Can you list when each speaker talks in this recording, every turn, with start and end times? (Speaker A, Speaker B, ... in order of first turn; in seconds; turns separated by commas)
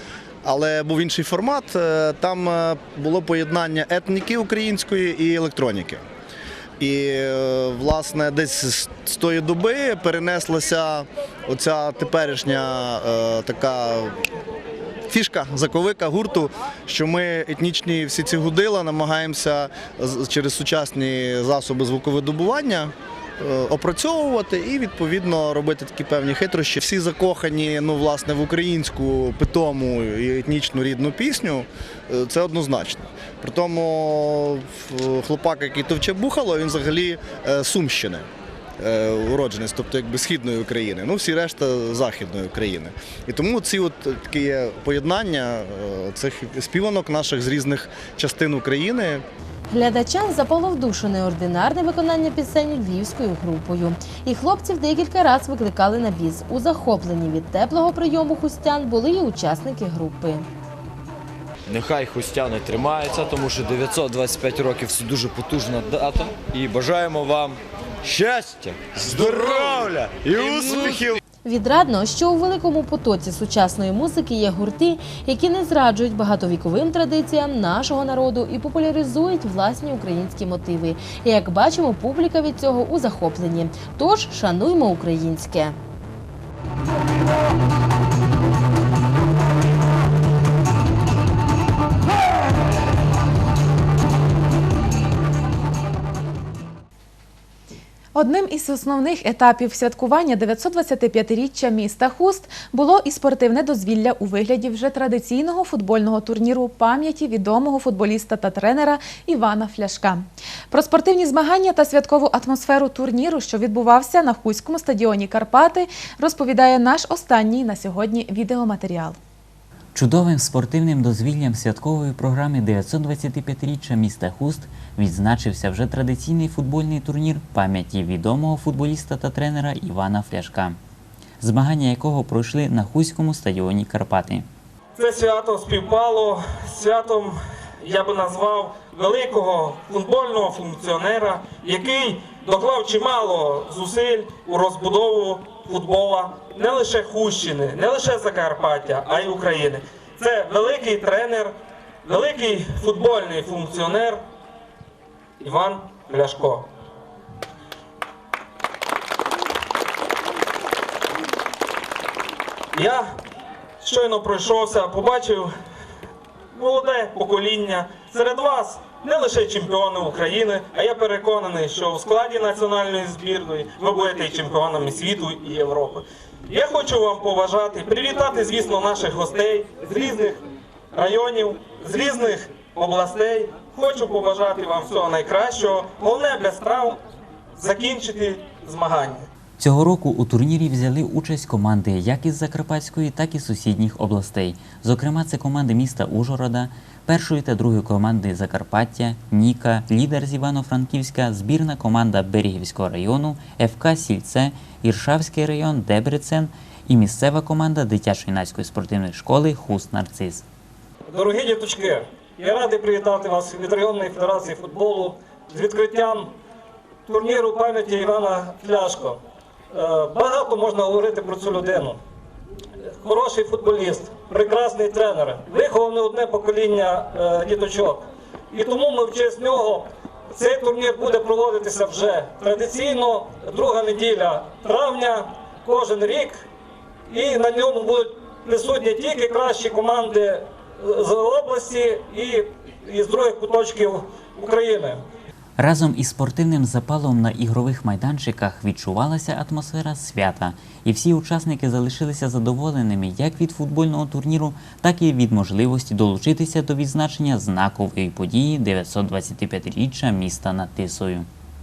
Speaker A: 0.4-6.0, Speaker A: 6.8-14.1, Speaker A: 15.1-38.2, Speaker A: 38.8-49.2, Speaker B: 49.7-60.5, Speaker C: 61.7-71.2, Speaker B: 71.4-85.8, Speaker D: 98.1-119.2, Speaker E: 119.9-130.8, Speaker E: 131.4-134.4, Speaker F: 134.9-154.2, Speaker F: 155.4-156.7, Speaker F: 162.7-163.2, Speaker F: 163.8-165.5, Speaker F: 166.5-180.4, Speaker F: 180.9-187.0, Speaker F: 187.6-189.3, Speaker E: 189.6-210.4, Speaker F: 211.1-216.3, Speaker F: 217.1-219.2, Speaker F: 219.7-222.0, Speaker F: 223.0-236.4, Speaker F: 237.1-245.0, Speaker E: 245.6-261.3